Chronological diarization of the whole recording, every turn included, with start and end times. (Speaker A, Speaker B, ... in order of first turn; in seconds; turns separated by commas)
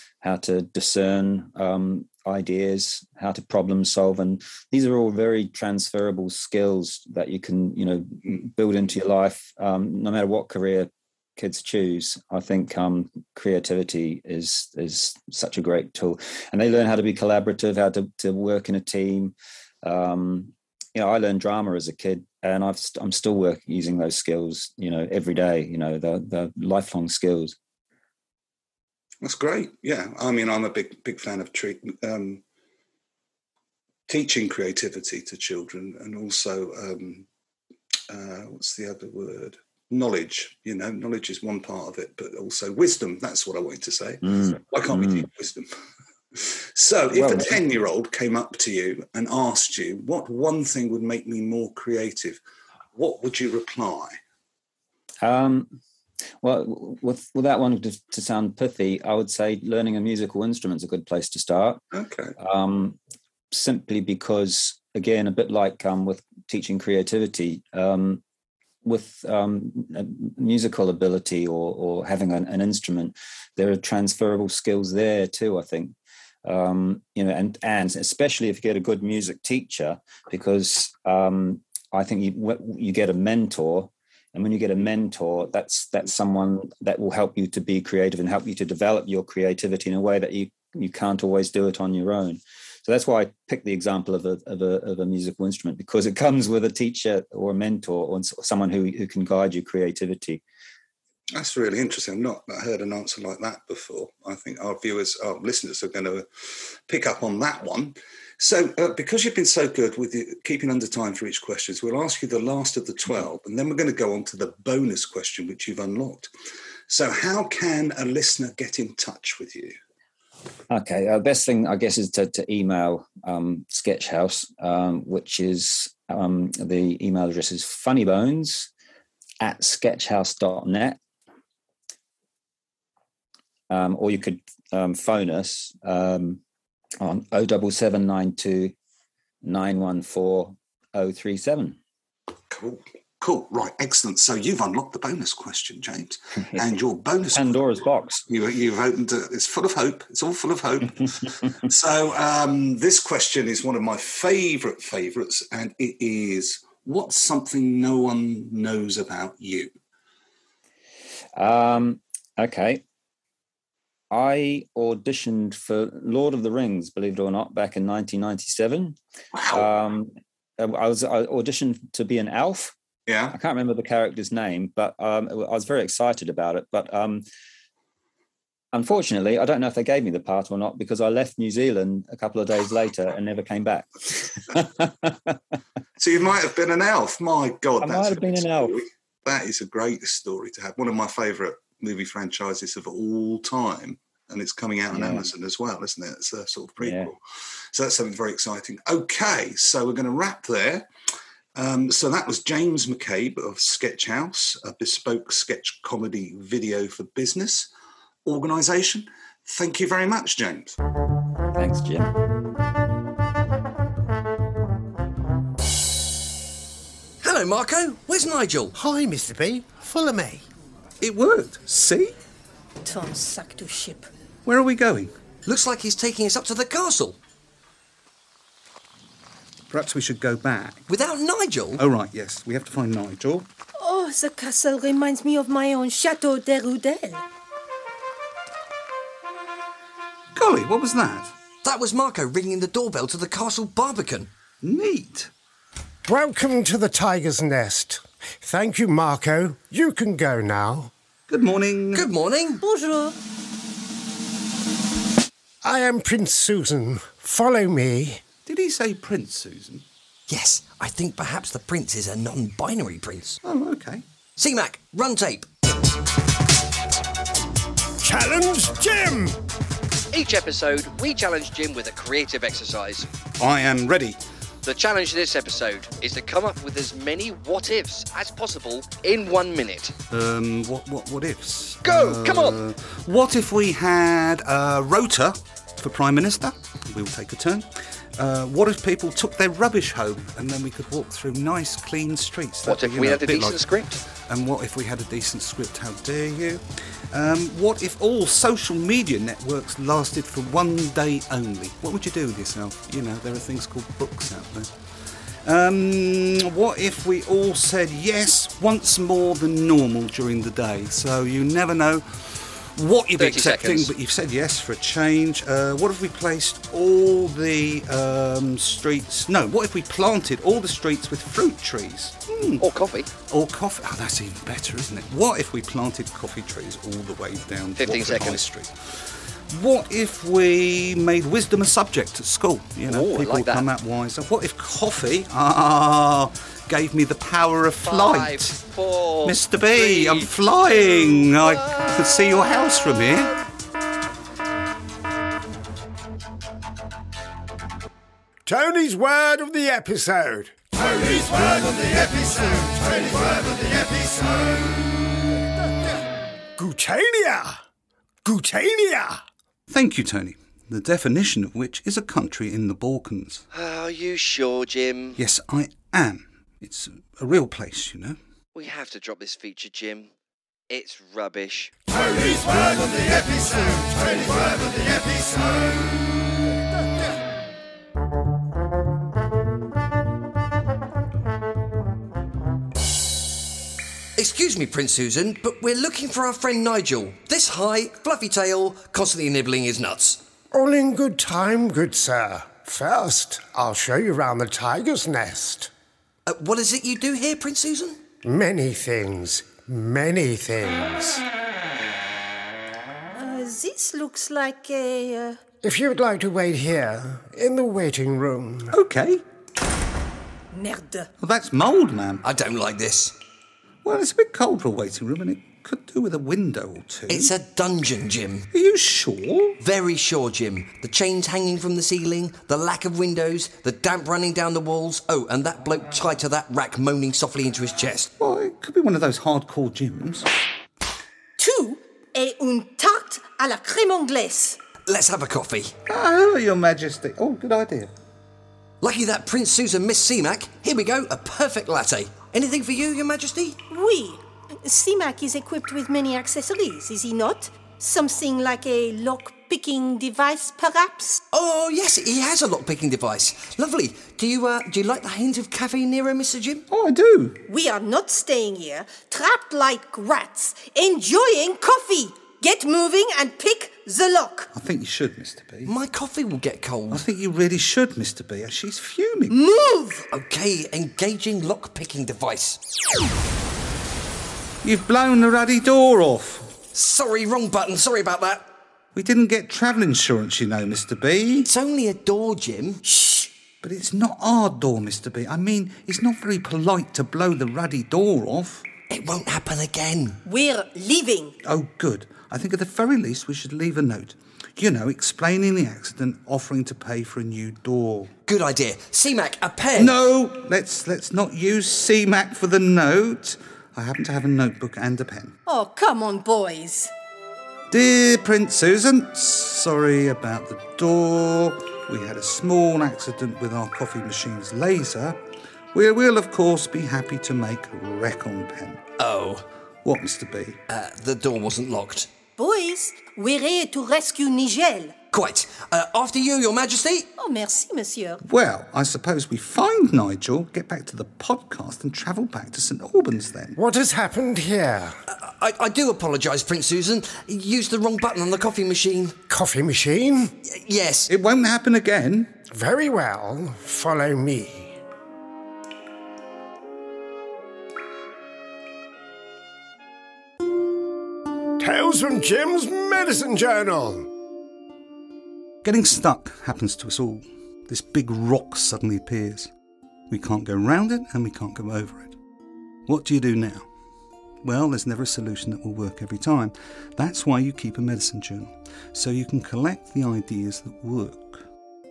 Speaker A: 0.2-27.6, Speaker B: 29.2-32.4, Speaker B: 34.1-37.2, Speaker B: 38.1-45.7, Speaker A: 44.2-45.2, Speaker B: 46.4-52.4, Speaker A: 47.1-47.6, Speaker B: 52.9-54.2, Speaker A: 55.2-55.8, Speaker A: 56.4-61.8, Speaker B: 61.9-62.3, Speaker A: 62.4-63.0, Speaker A: 63.5-68.2, Speaker A: 68.8-100.4, Speaker B: 101.3-116.3, Speaker B: 116.9-119.8, Speaker A: 120.7-128.7, Speaker A: 129.4-131.0, Speaker A: 133.7-136.4, Speaker A: 137.0-138.7, Speaker A: 139.4-141.8, Speaker B: 142.5-147.7, Speaker A: 147.3-148.2, Speaker B: 148.2-159.7, Speaker A: 161.3-162.8, Speaker A: 164.1-172.7, Speaker B: 169.3-169.7, Speaker B: 173.1-173.3, Speaker A: 173.3-177.2, Speaker A: 178.7-185.4, Speaker B: 186.0-197.2, Speaker A: 187.8-188.8, Speaker A: 194.9-195.2, Speaker A: 196.8-197.1, Speaker B: 197.7-200.9, Speaker B: 201.5-207.7, Speaker B: 208.2-210.7, Speaker A: 211.5-212.1, Speaker C: 217.2-218.7, Speaker D: 218.8-220.4, Speaker E: 221.0-222.1, Speaker F: 222.8-224.1, Speaker E: 224.4-225.1, Speaker C: 225.4-227.2, Speaker E: 229.7-230.9, Speaker C: 230.9-231.8, Speaker E: 231.8-233.5, Speaker F: 233.8-237.2, Speaker E: 240.3-241.3, Speaker C: 241.6-244.3, Speaker E: 244.6-245.3, Speaker D: 246.1-250.9, Speaker E: 251.3-252.1, Speaker C: 251.9-252.6, Speaker F: 252.6-253.2, Speaker D: 255.6-258.2, Speaker E: 258.4-259.8, Speaker C: 260.3-263.4, Speaker E: 263.4-264.0, Speaker C: 264.4-265.5, Speaker D: 268.0-269.4, Speaker G: 270.1-273.1, Speaker E: 273.4-274.2, Speaker G: 274.6-279.9, Speaker E: 280.1-304.9, Speaker G: 281.8-282.6, Speaker G: 292.6-294.0, Speaker E: 305.4-322.6, Speaker G: 313.2-313.9, Speaker G: 322.6-323.1, Speaker E: 323.2-338.6, Speaker G: 327.8-328.4, Speaker G: 332.9-333.6, Speaker G: 337.8-340.3, Speaker E: 339.2-343.3, Speaker D: 348.4-354.5, Speaker D: 356.6-357.6, Speaker D: 358.2-359.2, Speaker E: 359.7-363.4, Speaker G: 363.5-365.2, Speaker E: 365.1-368.2, Speaker G: 368.5-370.1, Speaker G: 370.7-371.7, Speaker D: 372.1-374.6, Speaker C: 384.1-390.2, Speaker D: 390.5-395.7, Speaker C: 396.3-398.0, Speaker D: 398.2-401.2, Speaker F: 403.1-405.4, Speaker D: 405.6-408.7, Speaker E: 408.7-409.2, Speaker F: 410.5-411.1, Speaker E: 411.2-412.2, Speaker C: 412.2-413.1, Speaker E: 413.8-417.3, Speaker C: 417.1-418.5, Speaker E: 418.5-419.6, Speaker C: 419.6-428.1, Speaker E: 428.2-430.3, Speaker F: 431.4-434.6, Speaker C: 434.9-435.7, Speaker E: 435.9-437.9, Speaker C: 438.8-443.6, Speaker F: 443.7-451.2, Speaker C: 451.3-456.6, Speaker E: 456.7-457.4, Speaker F: 457.5-464.5, Speaker E: 464.5-465.7, Speaker C: 465.6-467.1, Speaker E: 466.9-469.3, Speaker F: 469.3-470.1, Speaker C: 470.1-472.6, Speaker E: 474.6-476.5, Speaker C: 476.7-478.5, Speaker E: 478.9-481.5, Speaker C: 481.4-482.8, Speaker F: 482.8-483.3, Speaker E: 483.6-488.6, Speaker C: 488.9-490.2, Speaker F: 490.2-491.3, Speaker E: 491.4-498.1, Speaker C: 498.3-500.0, Speaker E: 499.7-505.4, Speaker F: 505.4-506.9, Speaker E: 507.7-515.2, Speaker E: 515.7-518.8, Speaker C: 519.0-519.4, Speaker E: 519.8-520.6, Speaker C: 520.7-522.1, Speaker F: 522.4-524.9, Speaker C: 525.1-527.1, Speaker F: 527.2-528.2, Speaker E: 528.2-533.5, Speaker D: 533.5-535.0, Speaker C: 535.1-539.2, Speaker D: 539.3-540.3, Speaker C: 540.5-541.1, Speaker E: 541.1-542.3, Speaker D: 542.5-544.8, Speaker D: 551.6-554.1, Speaker E: 555.6-559.5, Speaker E: 560.1-562.1, Speaker E: 562.9-563.7, Speaker E: 564.4-571.5